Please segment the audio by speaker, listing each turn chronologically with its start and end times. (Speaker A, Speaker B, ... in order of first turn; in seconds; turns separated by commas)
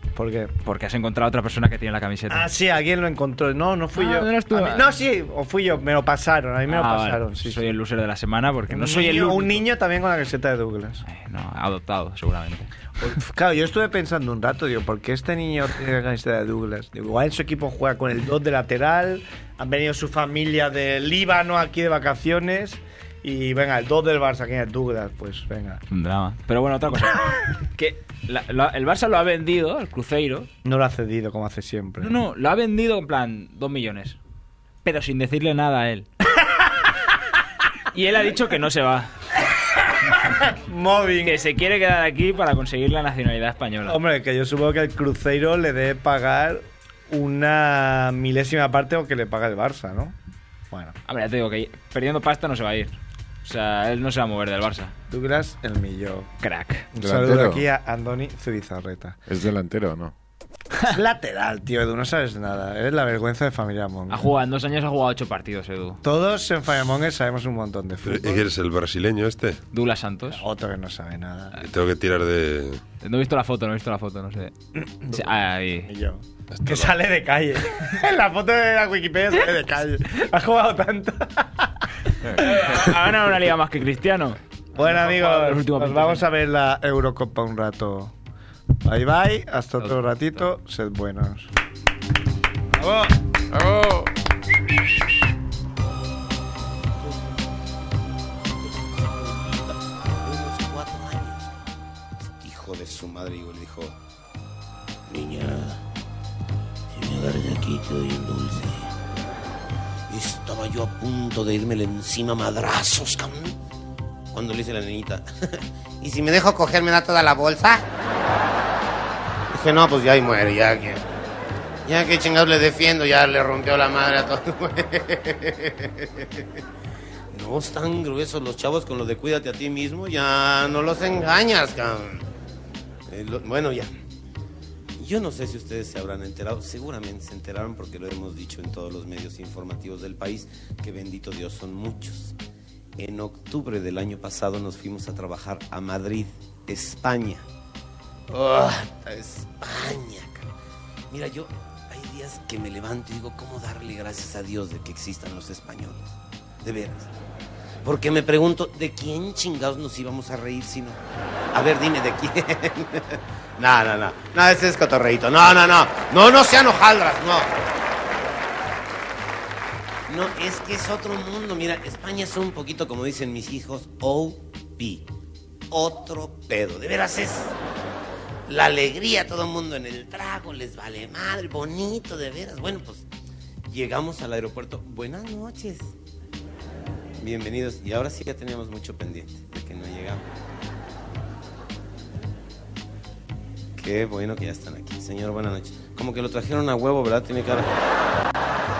Speaker A: 0.1-0.5, Speaker B: 0.6-2.5, Speaker A: 2.3-7.7, Speaker B: 4.0-4.9, Speaker B: 6.7-9.6, Speaker A: 8.7-11.0, Speaker B: 11.0-12.7, Speaker A: 13.0-25.8, Speaker B: 25.9-30.5, Speaker A: 30.6-32.1, Speaker B: 32.0-34.2, Speaker B: 34.8-36.1, Speaker B: 37.9-39.1, Speaker A: 40.0-41.4, Speaker B: 41.2-44.0, Speaker A: 43.9-50.1, Speaker A: 50.7-51.0, Speaker B: 51.0-54.9, Speaker A: 55.1-56.3, Speaker B: 56.4-56.9, Speaker A: 56.9-59.2, Speaker C: 57.0-57.7, Speaker C: 59.3-60.1, Speaker A: 60.8-64.3, Speaker B: 64.1-66.0, Speaker A: 66.0-68.4, Speaker D: 68.0-69.6, Speaker B: 69.7-70.4, Speaker A: 70.3-71.6, Speaker D: 71.6-72.8, Speaker B: 73.0-75.9, Speaker A: 75.9-81.8, Speaker D: 76.5-76.9, Speaker B: 82.3-86.2, Speaker A: 82.4-82.8, Speaker A: 84.8-88.1, Speaker A: 88.8-91.5, Speaker A: 92.7-93.2, Speaker C: 93.5-94.1, Speaker E: 98.5-101.6, Speaker E: 102.3-104.0, Speaker E: 105.1-105.8, Speaker E: 106.9-108.9, Speaker E: 110.1-113.6, Speaker E: 114.3-117.8, Speaker E: 119.5-121.0, Speaker E: 121.8-126.6, Speaker E: 127.3-132.2, Speaker E: 133.1-133.9, Speaker E: 135.0-142.3, Speaker E: 143.0-147.4, Speaker E: 148.3-150.5, Speaker E: 151.1-157.1, Speaker E: 157.8-161.0, Speaker E: 161.5-167.5, Speaker E: 170.1-175.1, Speaker E: 175.7-177.6, Speaker E: 178.4-183.1, Speaker E: 183.7-185.9, Speaker E: 187.2-190.3, Speaker E: 193.8-197.7